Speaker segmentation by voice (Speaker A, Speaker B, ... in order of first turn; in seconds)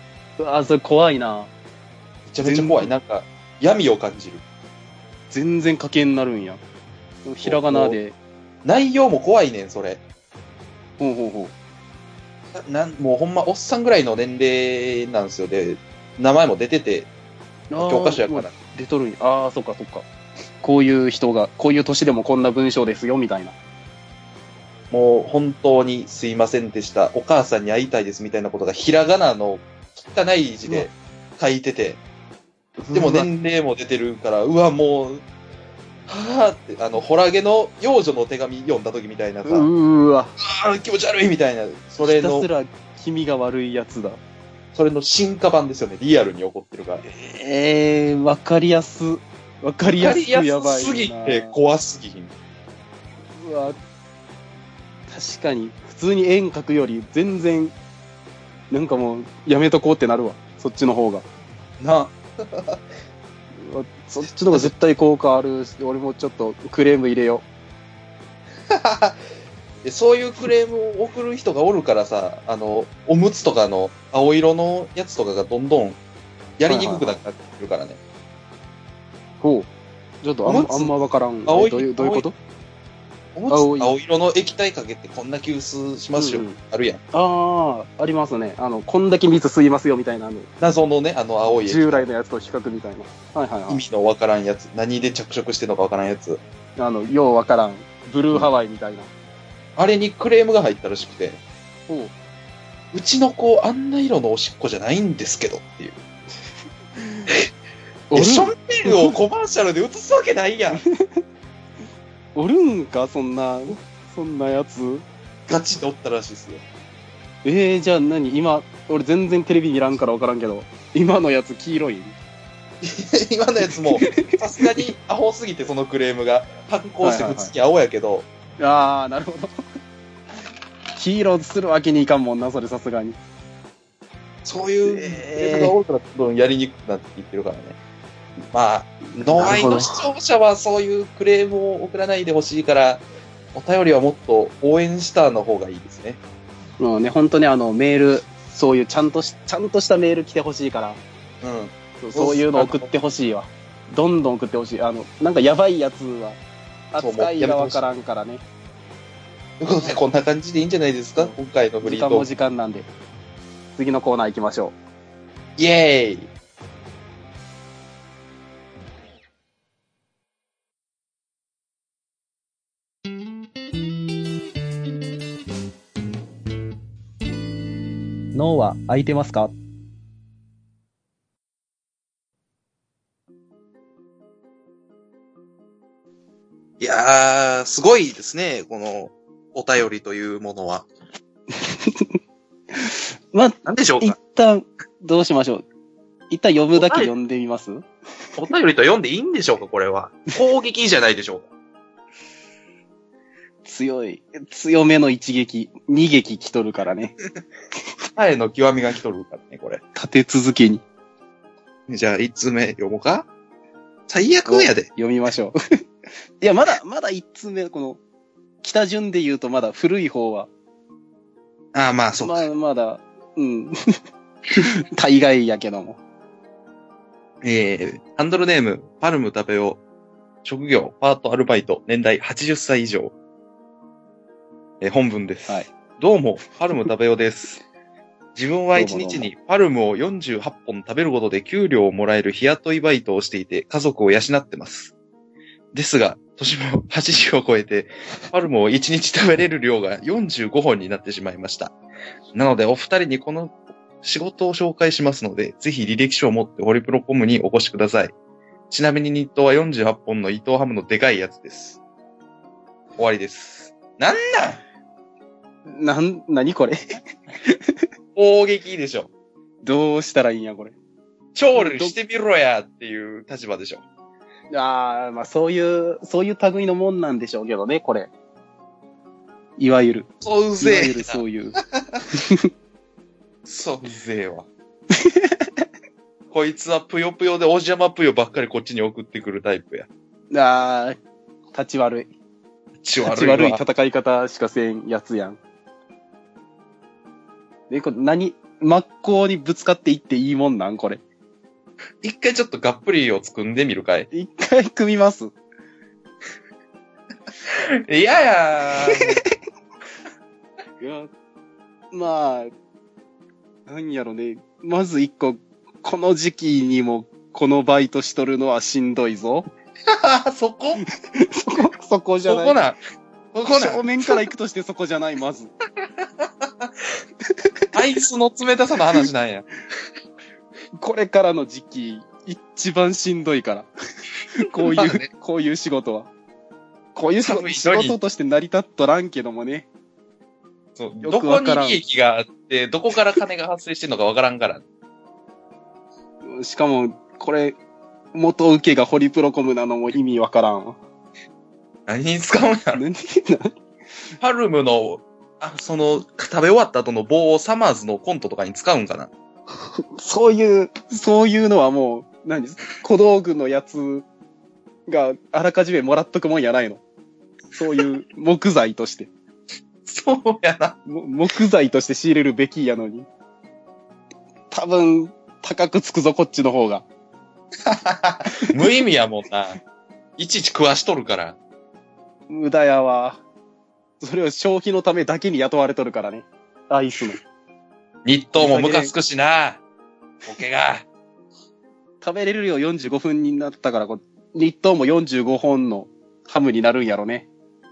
Speaker A: 0.4-1.5, 2.4-2.9, 5.3-6.6, 7.2-8.2, 11.0-11.5, 17.7-20.1, 20.6-23.6, 32.8-33.3, 39.5-40.3, 42.0-44.2, 47.1-51.5, 53.4-53.8, 55.1-57.8, 58.7-61.3, 63.6-67.5, 76.7-77.2, 79.4-79.7, 80.2-82.4, 83.5-83.9, 86.2-86.6, 87.1-90.5, 91.7-93.8, 96.8-99.1, 101.9-102.1, 107.0-107.3, 108.1-109.1, 112.3-115.0, 117.5-122.2, 123.9-124.8, 127.0-127.5, 128.6-129.5, 131.0-133.2, 134.9-135.8, 139.1-140.0, 146.8-151.0, 152.0-156.4, 156.9-158.4, 161.2-162.9, 163.8-164.8, 178.3-179.6, 191.5-192.1, 192.8-195.7, 196.3-197.8, 203.7-207.2, 209.9-210.8, 214.5-215.6, 216.4-218.0, 218.6-220.5, 222.2-223.7, 224.6-226.0, 238.7-239.3, 265.7-266.8, 269.6-270.8, 271.5-271.9, 274.5-278.1, 279.6-281.6, 282.1-282.5, 284.9-285.5, 290.3-291.0, 291.5-292.1, 293.0-295.4, 297.7-301.0, 304.1-305.3, 308.8-309.3, 310.8-311.1, 311.9-312.5, 313.7-319.5, 321.1-322.6, 323.5-325.5, 330.8-333.7, 334.3-336.1, 336.9-339.7, 341.0-341.8, 346.3-347.6, 348.1-350.8, 352.7-353.5, 360.0-364.1, 364.9-366.8, 367.5-369.1, 370.9-373.1, 374.5-376.9, 382.3-383.2, 384.0-387.2, 388.4-388.9, 392.0-397.3
Speaker B: 2.3-4.4, 7.4-8.0, 8.6-10.0, 12.5-17.1, 17.8-18.5, 24.9-32.0, 32.9-35.2, 36.1-39.7, 40.4-42.5, 44.7-47.0, 49.9-52.3, 61.8-62.8, 68.7-69.2, 69.8-76.0, 76.6-78.0, 80.4-80.9, 81.5-82.2, 83.3-87.0, 90.6-92.1, 93.7-96.4, 99.8-101.4, 102.9-106.0, 108.1-110.8, 115.5-116.6, 122.8-128.3, 134.4-137.8, 138.5-146.2, 151.4-152.9, 157.0-157.8, 159.6-162.3, 165.6-166.3, 186.8-190.9, 193.7-194.2, 196.8-197.1, 198.4-201.5, 208.2-209.8, 211.9-213.3, 214.1-214.9, 221.7-222.4, 227.4-229.8, 230.4-233.1, 234.8-237.6, 238.4-244.9, 245.7-251.7, 252.3-258.1, 258.7-261.8, 263.0-264.6, 268.2-269.1, 271.4-273.8, 280.2-281.2, 283.5-284.5, 286.3-289.9, 292.8-293.6, 302.0-304.1, 307.5-309.2, 319.9-320.8, 322.3-322.8, 323.3-324.1, 326.2-326.7, 327.7-329.5, 334.6-335.1, 337.2-338.0, 340.8-344.6, 351.9-352.8, 354.2-359.1, 369.9-370.8, 377.7-379.6, 380.2-381.4, 388.1-389.6, 390.2-390.9